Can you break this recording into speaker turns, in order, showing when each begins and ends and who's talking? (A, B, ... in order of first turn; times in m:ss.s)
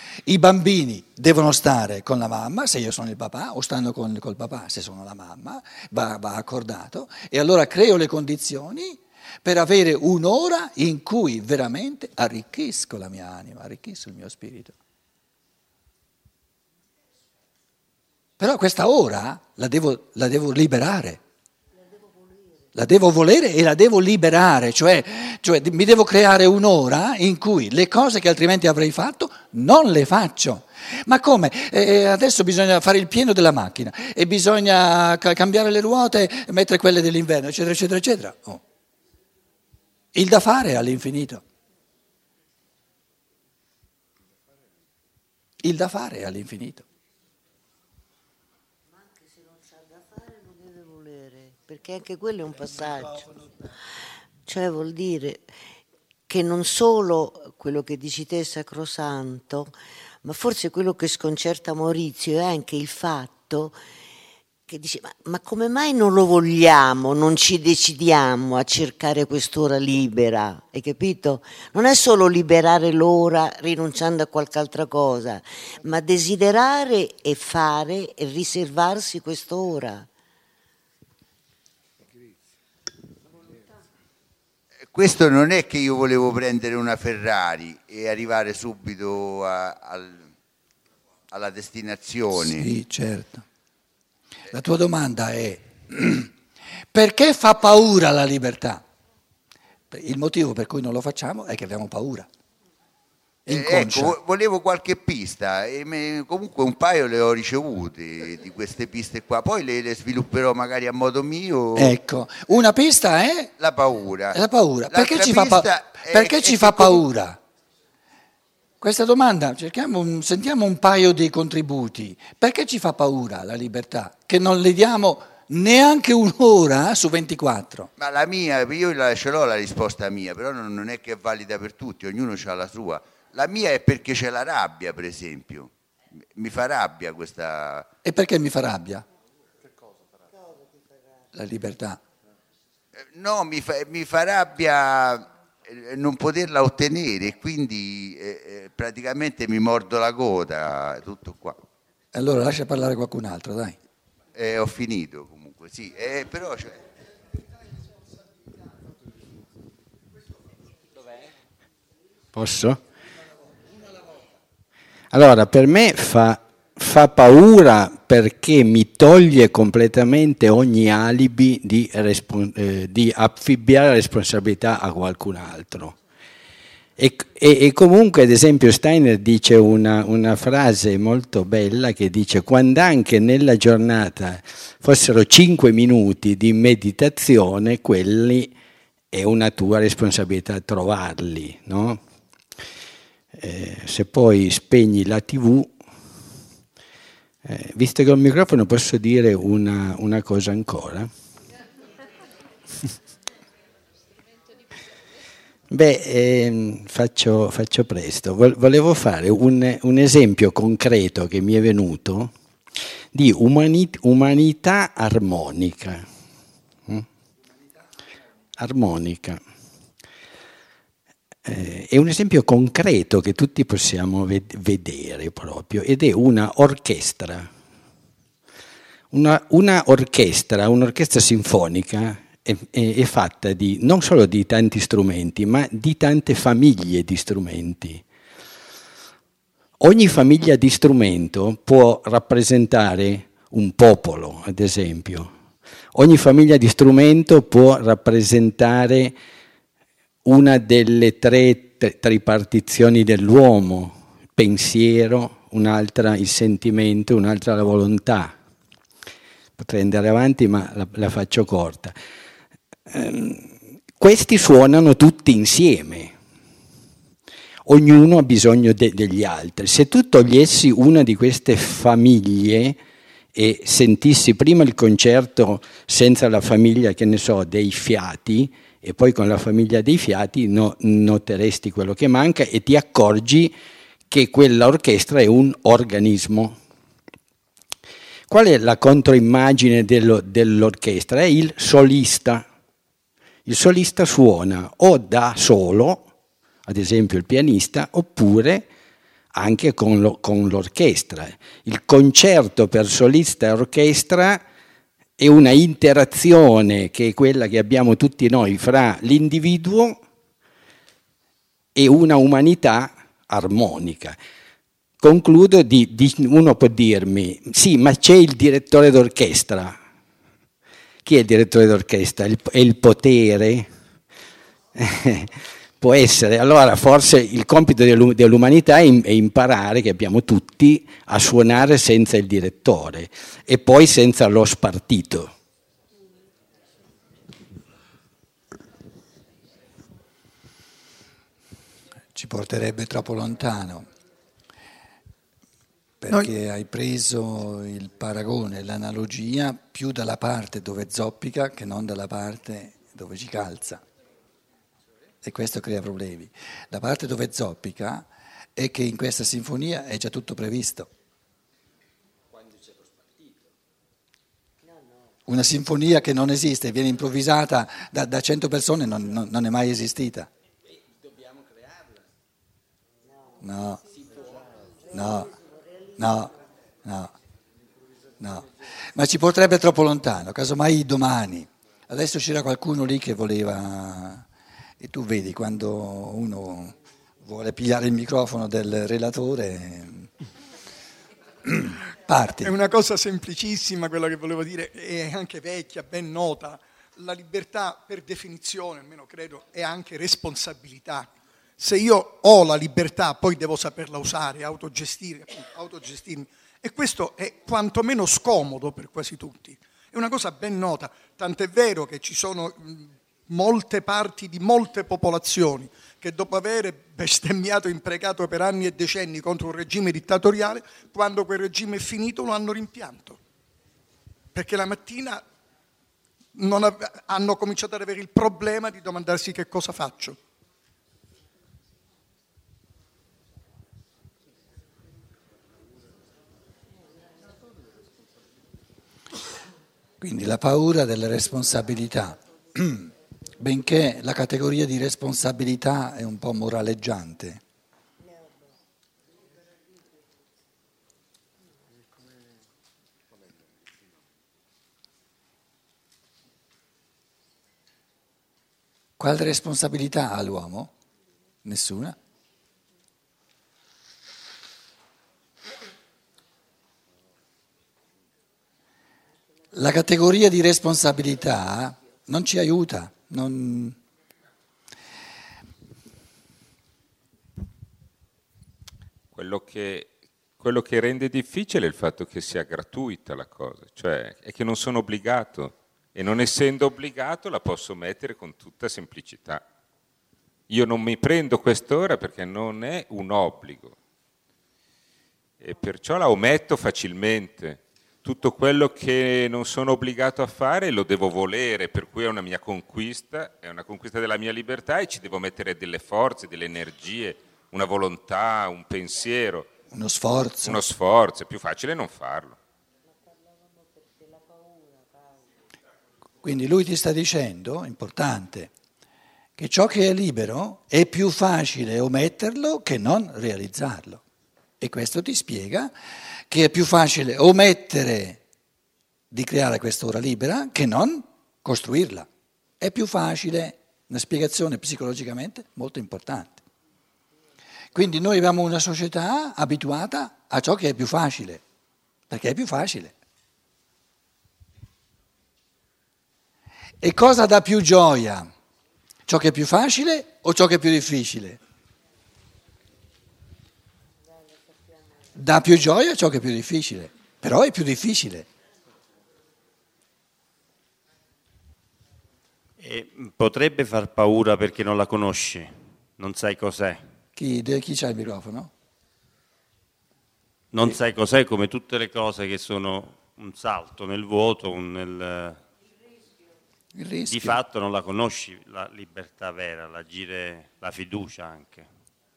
0:00.2-0:14.8 A
0:18.4-0:21.2 A
0:21.7-0:22.7 B
0:22.8-0:38.6 A
0:40.2-0:41.4 A
0:45.6-0:46.8 A
0:48.9-0:53.8 B
0:54.4-0:55.5 B
0:56.3-1:03.8 B
1:04.7-1:20.1 B
1:24.9-1:30.3 C
1:31.3-1:32.7 C
1:32.4-1:33.5 A
1:34.5-1:36.3 A
1:36.9-1:38.8 A
1:39.9-1:42.3 A
1:43.5-1:44.2 A
1:43.5-1:52.0 C
1:51.8-1:53.5 A
1:53.6-1:54.4 C
1:54.3-1:57.4 A
1:54.9-1:57.0 C
1:58.8-2:07.9 A
2:08.0-2:15.7 C
2:16.4-2:17.9 C
2:18.0-2:19.0 A
2:20.2-2:21.3 B
2:21.3-2:22.0 A
2:23.1-2:31.6 C
2:32.1-2:33.8 A
2:34.4-2:36.8 C
2:42.3-2:42.8 D
2:45.1-2:56.0 D
2:57.0-3:08.5 D
3:09.1-3:12.0 D
3:13.3-3:15.7 D
3:17.4-3:21.1 D
3:25.7-3:32.3 D
3:33.1-3:36.1 D
3:38.6-3:39.4 D
3:41.4-3:47.5 D
3:49.1-3:58.0 D
3:59.8-4:05.3 D
4:05.9-4:09.2 D
4:10.2-4:18.4 D
4:19.6-4:22.0 D
4:22.9-4:26.1 D
4:27.7-4:32.8 D
4:33.3-4:43.5 D
4:44.1-4:46.6 D
4:48.3-4:52.4 D
4:53.5-4:56.0 D
4:56.7-4:58.7 D
4:59.3-5:04.4 D
5:05.2-5:10.0 D
5:11.8-5:14.2 D
5:15.0-5:19.8 D
5:21.0-5:23.7 D
5:24.8-5:35.3 D
5:42.2-5:43.9 A
5:46.0-5:53.8 A
5:55.2-6:00.9 A
6:04.6-6:05.2 B
6:05.3-6:10.3 A
6:13.0-6:16.5 B
6:13.4-6:13.8 A
6:14.9-6:15.3 A
6:16.0-6:16.3 A
6:16.8-6:17.1 A
6:18.2-6:24.2 A
6:24.8-6:30.1 A
6:31.5-6:32.6 A
6:32.4-7:03.2 E
7:04.4-7:05.2 E
7:06.4-7:10.2 E
7:20.0-7:27.4 A
7:39.0-7:40.7 A
7:41.4-7:42.0 A
7:49.5-7:53.8 A
7:59.1-8:09.4 F
8:10.5-8:13.8 F
8:15.4-8:29.5 F
8:29.7-8:30.7 A
8:30.4-8:32.4 F
8:32.9-8:35.3 B
8:36.2-8:38.5 A
8:39.4-8:44.0 A
8:44.6-8:45.7 A
8:46.3-8:48.2 A
8:49.1-8:52.1 A
8:52.6-8:56.4 A
8:57.7-9:01.4 A
9:02.1-9:02.9 A
9:06.8-9:08.3 A
9:09.1-9:11.4 A
9:14.2-9:15.1 B
9:15.2-9:18.3 A
9:22.6-9:26.8 G
9:27.2-9:28.5 A
9:30.5-9:35.4 G
9:36.8-9:37.4 A
9:37.1-9:41.7 G